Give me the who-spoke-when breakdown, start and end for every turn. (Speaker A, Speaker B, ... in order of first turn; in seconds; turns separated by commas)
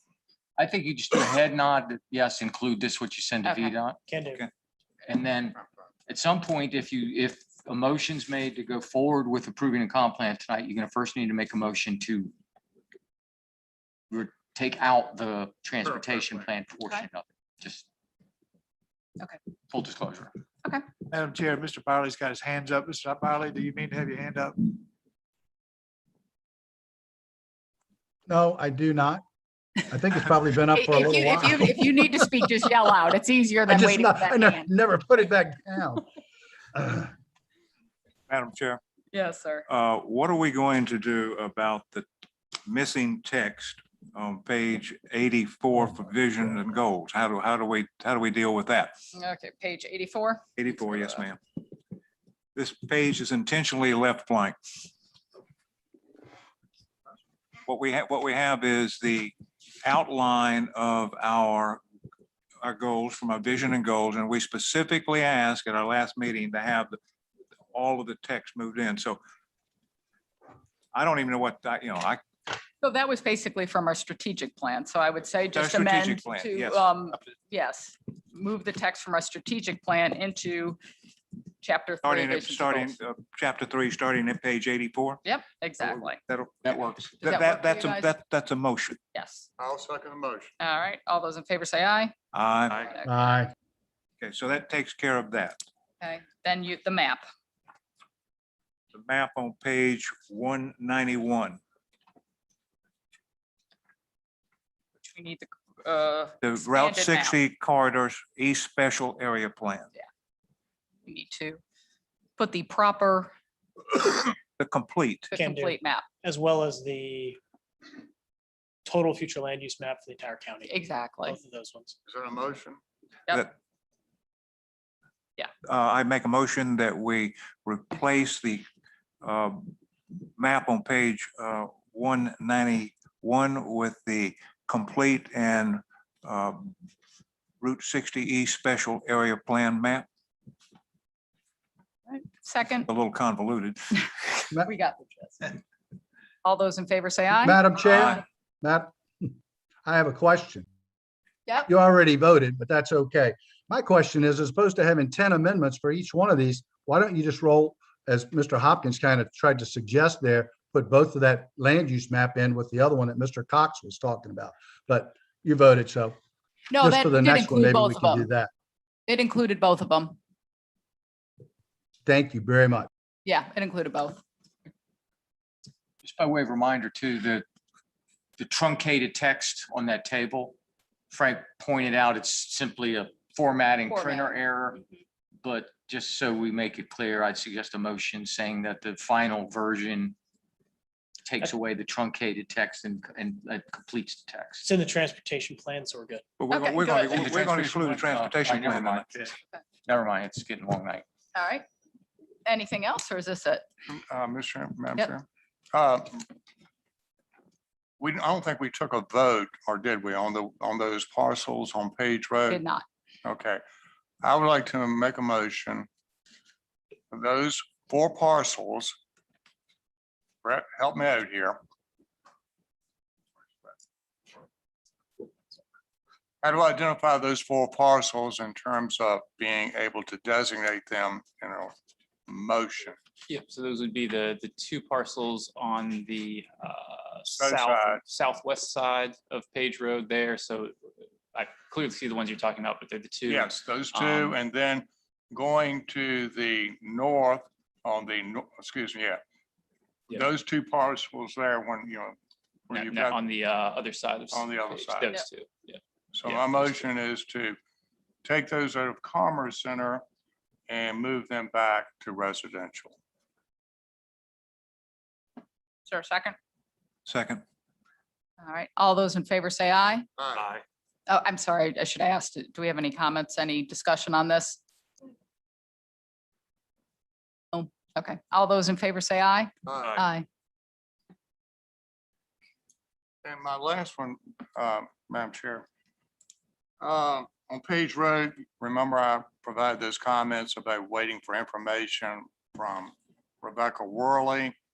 Speaker A: 0.6-4.0, Speaker B: 3.4-3.7, Speaker C: 4.1-4.4, Speaker A: 5.1-12.3, Speaker A: 14.1-17.8, Speaker A: 19.7-20.3, Speaker D: 21.1-24.6, Speaker E: 28.3-29.2, Speaker E: 29.9-31.9, Speaker B: 30.7-34.7, Speaker E: 33.7-36.0, Speaker E: 36.7-37.1, Speaker F: 38.3-38.8, Speaker B: 39.1-39.6, Speaker F: 39.7-42.0, Speaker F: 42.6-48.9, Speaker B: 49.1-51.2, Speaker F: 50.6-51.4, Speaker F: 52.5-54.5, Speaker F: 57.6-61.8, Speaker F: 62.6-67.0, Speaker F: 67.7-69.2, Speaker F: 70.9-72.2, Speaker B: 72.8-80.8, Speaker F: 75.5-76.9, Speaker B: 81.6-83.0, Speaker F: 82.0-85.2, Speaker B: 85.2-86.2, Speaker F: 85.8-89.0, Speaker A: 86.6-86.9, Speaker B: 87.2-88.1, Speaker B: 89.1-89.5, Speaker G: 89.6-90.5, Speaker B: 90.6-92.1, Speaker F: 92.3-92.9, Speaker B: 92.7-93.4, Speaker E: 93.0-93.5, Speaker F: 94.2-95.6, Speaker B: 96.0-97.2, Speaker F: 98.9-101.6, Speaker B: 105.0-107.4, Speaker F: 106.4-109.9, Speaker B: 111.0-111.6, Speaker B: 112.4-113.3, Speaker F: 114.6-115.3, Speaker B: 115.3-116.0, Speaker C: 115.3-117.4, Speaker C: 118.8-122.0, Speaker B: 120.7-121.4, Speaker G: 122.1-122.8, Speaker F: 125.7-128.6, Speaker F: 129.2-129.7, Speaker F: 130.4-136.7, Speaker F: 137.6-140.1, Speaker B: 142.1-142.9, Speaker F: 142.9-144.2, Speaker B: 144.6-145.6, Speaker B: 146.4-147.6, Speaker E: 147.4-149.3, Speaker E: 149.8-150.7, Speaker E: 151.7-166.2, Speaker B: 166.7-168.3, Speaker E: 166.8-168.5, Speaker B: 169.1-170.2, Speaker E: 172.1-172.9, Speaker B: 173.2-174.2, Speaker A: 176.0-177.4, Speaker A: 178.4-180.6, Speaker A: 181.1-184.8, Speaker B: 183.9-184.8, Speaker A: 185.4-190.2, Speaker A: 191.2-194.7, Speaker C: 194.6-196.2, Speaker F: 196.4-199.1, Speaker B: 196.5-197.3, Speaker A: 197.1-199.3, Speaker A: 199.8-201.0, Speaker B: 201.3-201.7, Speaker B: 202.4-203.6, Speaker G: 203.9-206.2, Speaker G: 208.0-212.6, Speaker B: 212.5-212.8, Speaker G: 213.2-213.6, Speaker G: 214.2-215.9, Speaker G: 217.1-219.0, Speaker G: 220.4-221.6, Speaker G: 226.4-231.7, Speaker G: 232.3-233.0, Speaker H: 233.3-240.7, Speaker G: 237.3-238.0, Speaker H: 241.3-244.4, Speaker G: 243.3-249.2, Speaker G: 250.1-252.2, Speaker G: 252.7-253.2, Speaker H: 252.7-256.9, Speaker G: 254.3-255.1, Speaker G: 256.1-257.6, Speaker G: 258.2-260.0, Speaker G: 260.7-262.9, Speaker B: 265.9-266.4, Speaker F: 267.1-267.4, Speaker B: 268.4-270.1, Speaker G: 270.2-270.4, Speaker B: 271.1-274.6, Speaker B: 277.5-280.2, Speaker G: 279.6-280.0, Speaker G: 283.2-285.6, Speaker G: 286.8-294.6